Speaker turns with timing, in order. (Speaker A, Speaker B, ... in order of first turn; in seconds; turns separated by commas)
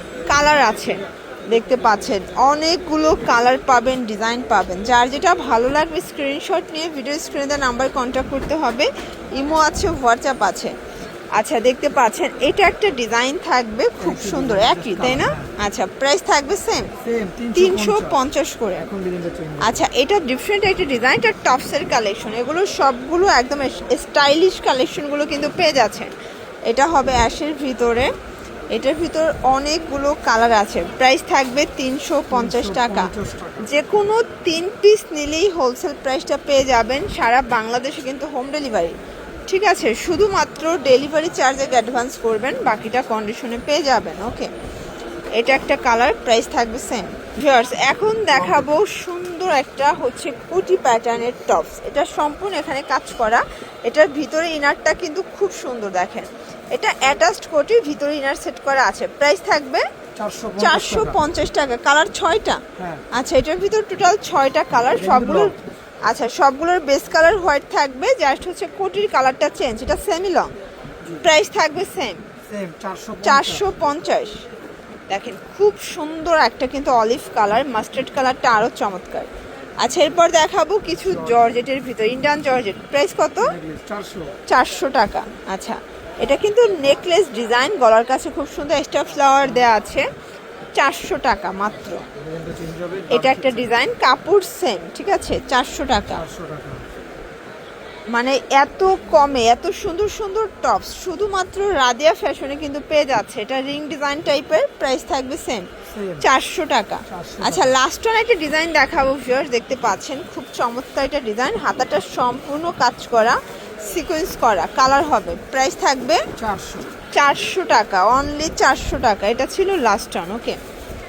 Speaker A: 0.3-10.7, Speaker A: 11.3-16.9, Speaker B: 14.0-15.5, Speaker B: 17.0-18.2, Speaker A: 17.5-18.9, Speaker B: 18.8-19.8, Speaker A: 19.6-26.1, Speaker A: 26.7-28.1, Speaker A: 28.7-39.0, Speaker B: 32.3-33.7, Speaker A: 39.5-44.5, Speaker A: 45.4-59.9, Speaker B: 48.3-48.7, Speaker B: 60.2-61.2, Speaker A: 60.6-70.5, Speaker B: 62.8-63.0, Speaker B: 64.9-65.6, Speaker A: 71.2-72.2, Speaker B: 72.5-73.7, Speaker A: 73.2-74.4, Speaker A: 75.1-83.6, Speaker B: 81.0-81.5, Speaker B: 83.4-84.3, Speaker A: 84.5-90.1, Speaker B: 89.4-89.6, Speaker A: 90.8-92.1, Speaker B: 92.2-93.8, Speaker A: 93.1-96.3, Speaker B: 96.1-96.9, Speaker A: 98.1-116.2, Speaker B: 105.9-106.3, Speaker B: 107.1-107.8, Speaker B: 116.4-116.9, Speaker A: 117.1-120.6